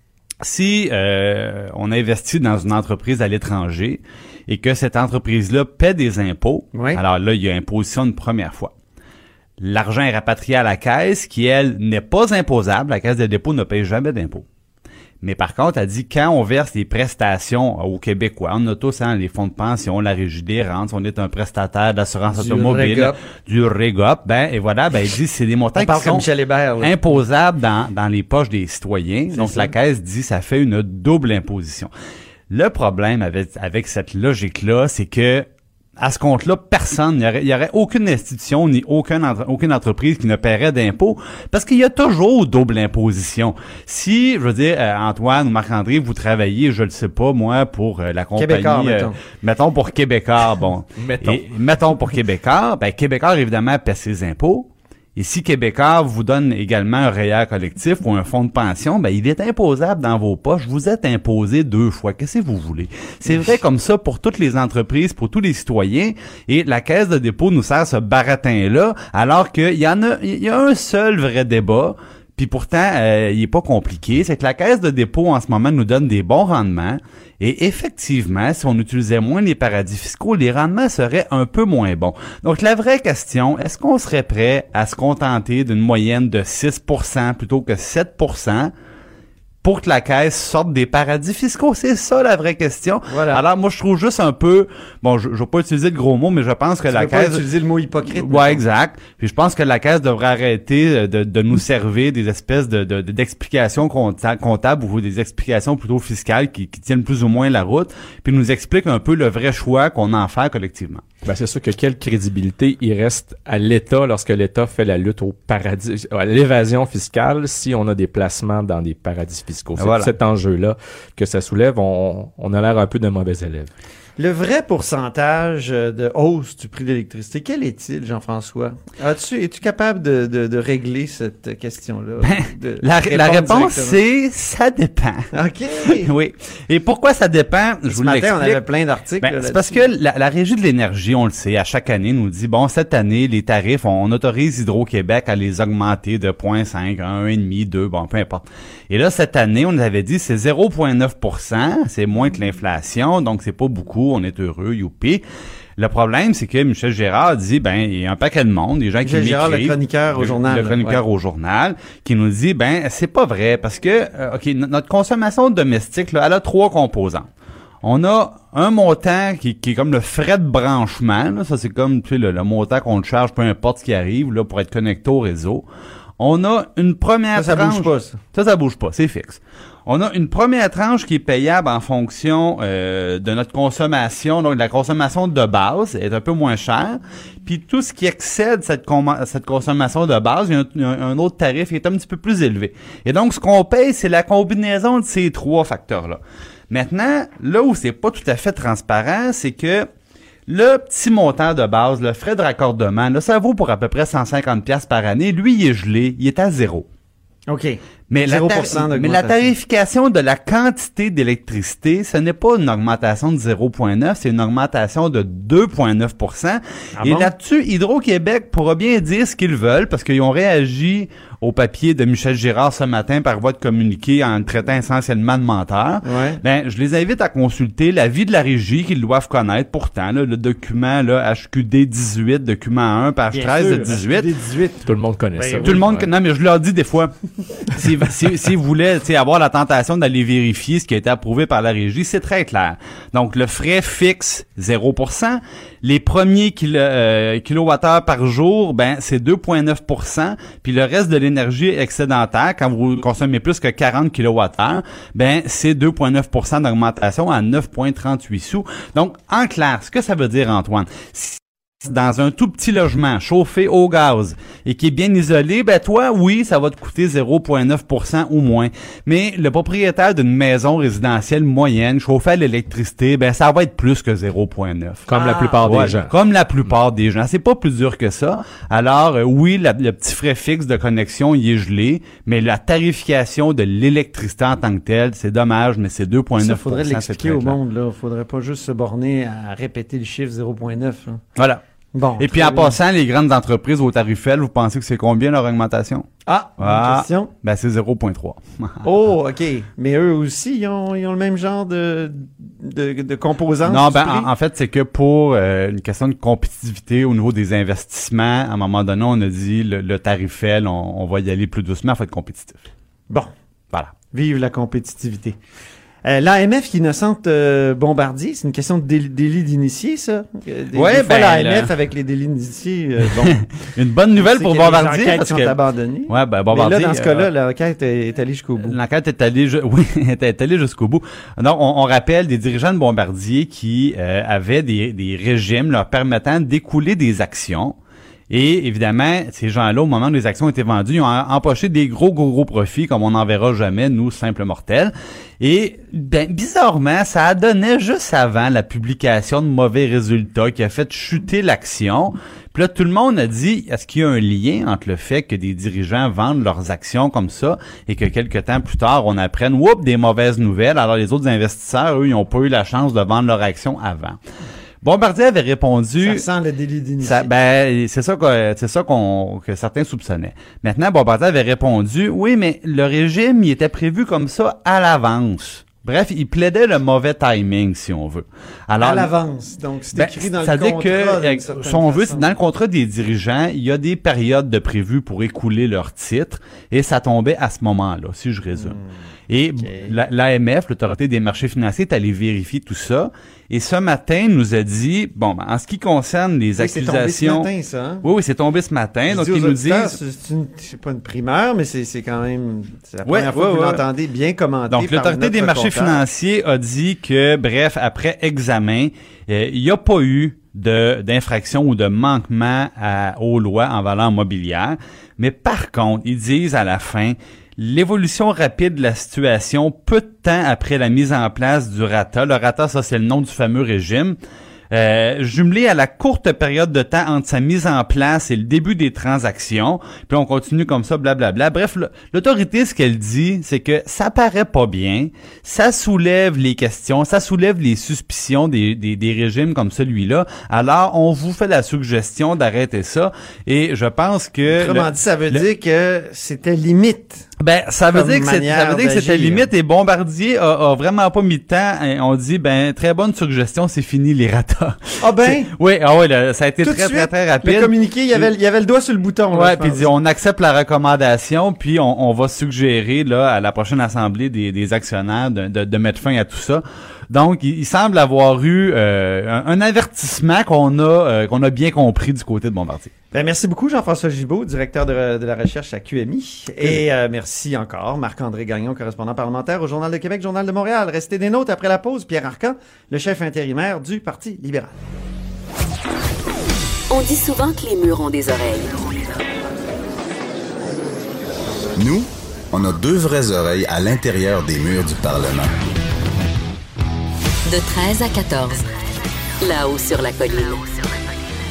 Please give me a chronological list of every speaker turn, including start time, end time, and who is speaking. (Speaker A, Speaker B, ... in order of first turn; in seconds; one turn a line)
Speaker A: 0.4-8.7
Speaker B: 6.7-7.0
Speaker A: 9.6-14.4
Speaker A: 15.2-26.3
Speaker B: 22.3-23.2
Speaker B: 25.8-27.2
Speaker A: 26.8-31.9
Speaker B: 29.3-29.7
Speaker A: 32.5-35.5
Speaker A: 36.0-88.7
Speaker B: 48.4-49.2
Speaker C: 51.0-51.5
Speaker B: 63.3-63.5
Speaker A: 89.6-97.4
Speaker B: 93.1-93.4
Speaker B: 96.9-98.6
Speaker A: 98.1-111.0
Speaker C: 111.2-123.7
Speaker A: 119.8-120.1
Speaker B: 124.2-134.0
Speaker A: 132.2-135.3
Speaker B: 135.3-136.1
Speaker A: 135.9-138.6
Speaker B: 137.9-139.9
Speaker A: 139.2-155.2
Speaker A: 155.8-167.3
Speaker B: 159.0-161.0
Speaker A: 167.8-175.7
Speaker A: 176.2-199.9
Speaker B: 177.3-178.2
Speaker A: 200.5-206.9
Speaker B: 207.5-209.5
Speaker A: 208.1-234.3
Speaker B: 217.0-217.3
Speaker B: 226.0-226.4
Speaker B: 233.3-234.8
Speaker C: 234.9-236.1
Speaker B: 235.4-235.8
Speaker A: 235.6-237.1
Speaker A: 237.6-287.6
Speaker C: 275.1-276.1
Speaker B: 286.4-291.2
Speaker A: 291.4-291.6
Speaker B: 291.9-292.8
Speaker A: 292.2-298.9
Speaker B: 296.3-297.3
Speaker B: 298.8-304.3
Speaker A: 303.7-312.7
Speaker B: 314.1-315.4
Speaker B: 316.0-323.4
Speaker A: 320.7-321.7
Speaker A: 323.2-325.6
Speaker B: 324.2-328.8
Speaker A: 326.1-327.3
Speaker A: 328.6-337.8
Speaker A: 338.3-364.2
Speaker A: 364.8-366.2
Speaker B: 366.0-367.3
Speaker A: 367.0-379.1
Speaker B: 378.8-382.4
Speaker A: 379.9-388.8
Speaker B: 388.5-388.9
Speaker A: 389.3-397.5
Speaker B: 389.6-389.9
Speaker B: 396.6-398.1
Speaker A: 398.0-400.0
Speaker B: 399.1-406.0
Speaker A: 403.1-403.8
Speaker A: 404.7-424.2
Speaker A: 424.7-445.4
Speaker B: 444.5-447.3
Speaker A: 447.4-458.3
Speaker B: 447.9-449.5
Speaker B: 455.0-455.5
Speaker B: 456.6-459.9
Speaker A: 459.3-472.9
Speaker B: 473.1-484.7
Speaker D: 486.9-488.8
Speaker E: 491.8-495.6
Speaker D: 497.5-498.6
Speaker D: 499.4-500.7